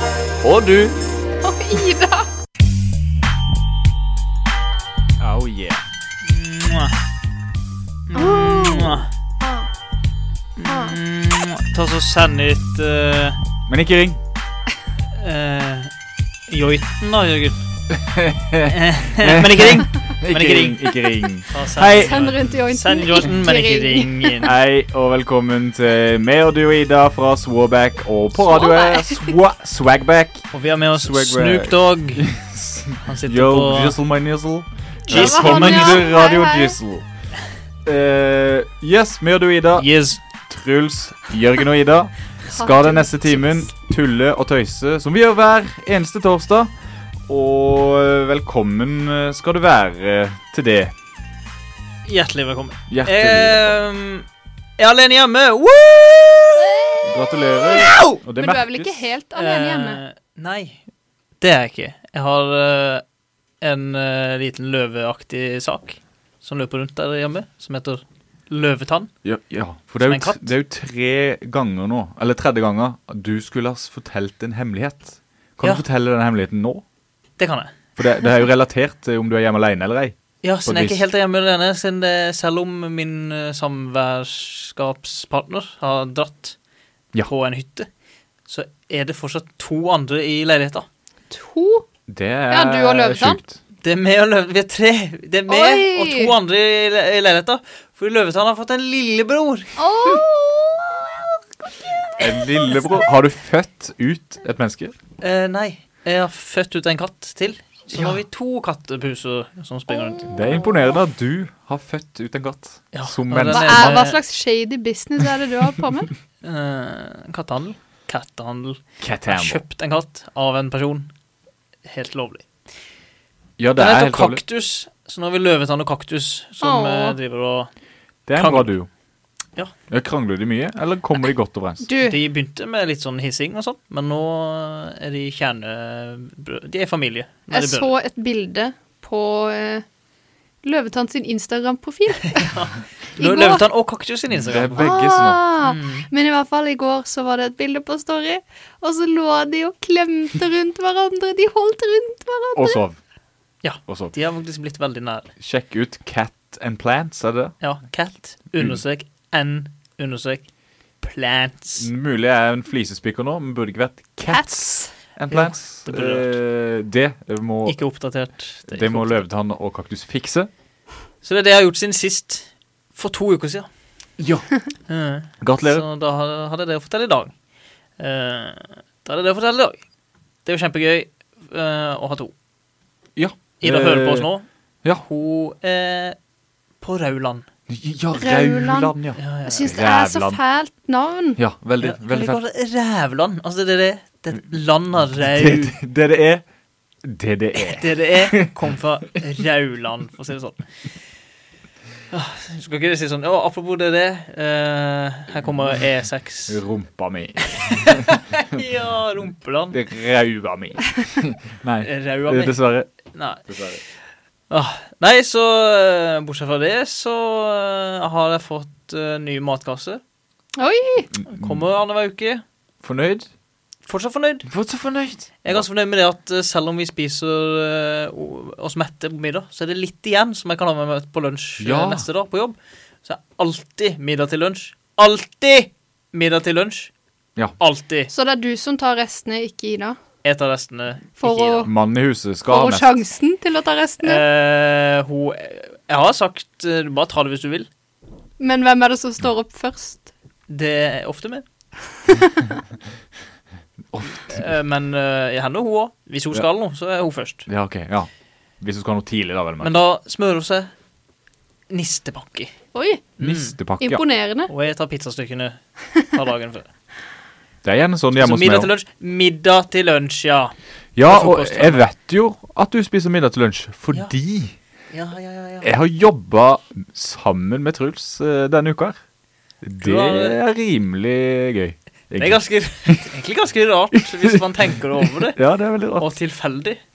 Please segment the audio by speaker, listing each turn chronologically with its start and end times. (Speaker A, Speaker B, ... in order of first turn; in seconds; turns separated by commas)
Speaker A: 0.4-1.0, Speaker B: 1.4-2.3, Speaker A: 5.2-5.8, Speaker C: 6.2-7.0, Speaker C: 8.1-9.1, Speaker B: 8.1-9.7, Speaker C: 10.6-13.4, Speaker B: 10.7-10.9, Speaker A: 13.7-14.2, Speaker C: 15.1-15.9, Speaker C: 16.5-17.6, Speaker A: 17.9-22.2, Speaker C: 18.6-20.9, Speaker C: 21.4-24.5, Speaker B: 21.8-24.5, Speaker A: 24.4-37.0, Speaker B: 28.4-29.4, Speaker C: 30.5-32.3, Speaker C: 33.0-34.0, Speaker C: 35.1-36.1, Speaker B: 35.1-36.8, Speaker A: 37.8-39.9, Speaker C: 39.8-40.2, Speaker A: 40.5-46.7, Speaker B: 42.5-43.7, Speaker A: 47.3-50.9, Speaker C: 52.0-54.3, Speaker A: 52.9-53.8, Speaker C: 54.8-56.9, Speaker B: 56.7-60.0, Speaker A: 57.0-59.0, Speaker C: 57.7-58.2, Speaker C: 59.3-60.8, Speaker C: 61.4-63.0, Speaker C: 63.6-69.1, Speaker A: 69.2-76.8, Speaker C: 70.0-70.5, Speaker C: 77.4-77.8, Speaker A: 78.0-81.0, Speaker C: 80.4-86.5, Speaker C: 87.2-87.9, Speaker C: 88.5-90.9, Speaker B: 91.3-91.8, Speaker A: 92.1-93.6, Speaker B: 92.5-93.4, Speaker C: 93.8-99.7, Speaker B: 95.5-96.3, Speaker B: 99.8-101.2, Speaker A: 102.2-104.9, Speaker B: 102.4-102.9, Speaker C: 105.2-110.4, Speaker B: 110.0-110.5, Speaker A: 110.3-114.0, Speaker C: 112.9-114.2, Speaker B: 113.5-116.1, Speaker C: 116.4-121.1, Speaker A: 119.0-119.6, Speaker C: 121.8-122.5, Speaker A: 123.6-124.4, Speaker C: 123.8-127.7, Speaker B: 126.6-127.2, Speaker A: 128.3-128.9, Speaker C: 128.3-128.7, Speaker A: 129.9-131.8, Speaker B: 131.8-132.2, Speaker C: 132.0-137.9, Speaker B: 137.5-139.8, Speaker B: 140.6-142.5, Speaker C: 142.3-144.9, Speaker B: 143.2-143.6, Speaker A: 144.3-145.4, Speaker B: 144.8-152.8, Speaker C: 145.6-146.1, Speaker A: 152.6-153.0, Speaker C: 153.6-155.3, Speaker A: 153.9-154.1, Speaker A: 155.4-157.5, Speaker C: 157.6-160.4, Speaker C: 161.0-161.9, Speaker A: 161.8-167.8, Speaker B: 164.2-164.9, Speaker C: 165.3-166.3, Speaker C: 167.7-169.2, Speaker A: 168.7-170.5, Speaker C: 171.2-173.7, Speaker A: 174.2-174.5, Speaker C: 174.9-177.3, Speaker A: 175.4-175.8, Speaker C: 178.0-179.8, Speaker C: 180.4-182.3, Speaker A: 183.2-184.3, Speaker C: 183.6-184.4, Speaker C: 185.0-186.2, Speaker C: 186.8-187.4, Speaker A: 187.7-190.4, Speaker B: 188.1-188.9, Speaker C: 189.2-189.7, Speaker B: 189.4-191.4, Speaker A: 191.4-192.4, Speaker C: 191.8-195.7, Speaker A: 195.1-196.4, Speaker A: 197.0-198.5, Speaker C: 197.5-200.6, Speaker C: 202.1-206.6, Speaker A: 206.5-208.6, Speaker C: 207.5-209.8, Speaker A: 209.7-212.9, Speaker C: 211.8-212.5, Speaker C: 213.1-213.4, Speaker A: 213.5-213.8, Speaker C: 214.5-220.0, Speaker B: 220.6-221.1, Speaker C: 221.3-222.4, Speaker A: 221.3-221.6, Speaker A: 222.8-223.3, Speaker C: 223.9-224.5, Speaker A: 224.5-225.6, Speaker C: 225.4-236.9, Speaker A: 231.6-232.0, Speaker C: 237.6-238.1, Speaker B: 238.1-240.0, Speaker C: 240.2-241.7, Speaker B: 241.2-241.7, Speaker A: 241.6-243.0, Speaker B: 242.5-244.2, Speaker C: 244.0-247.7, Speaker B: 248.4-250.1, Speaker C: 250.5-251.4, Speaker A: 253.9-254.5, Speaker C: 254.1-257.5, Speaker A: 257.5-258.1, Speaker A: 258.6-259.8, Speaker C: 259.6-260.7, Speaker C: 261.7-262.5, Speaker B: 262.7-263.1, Speaker C: 263.2-263.5, Speaker A: 263.2-264.0, Speaker B: 263.8-264.5, Speaker C: 264.5-265.6, Speaker C: 266.1-266.7, Speaker A: 267.6-268.7, Speaker C: 268.1-270.5, Speaker A: 270.9-274.5, Speaker C: 271.0-271.8, Speaker C: 274.9-275.7, Speaker A: 275.6-279.0, Speaker A: 279.6-283.0, Speaker C: 279.8-280.4, Speaker C: 282.2-285.4, Speaker A: 284.2-286.1, Speaker C: 286.0-286.8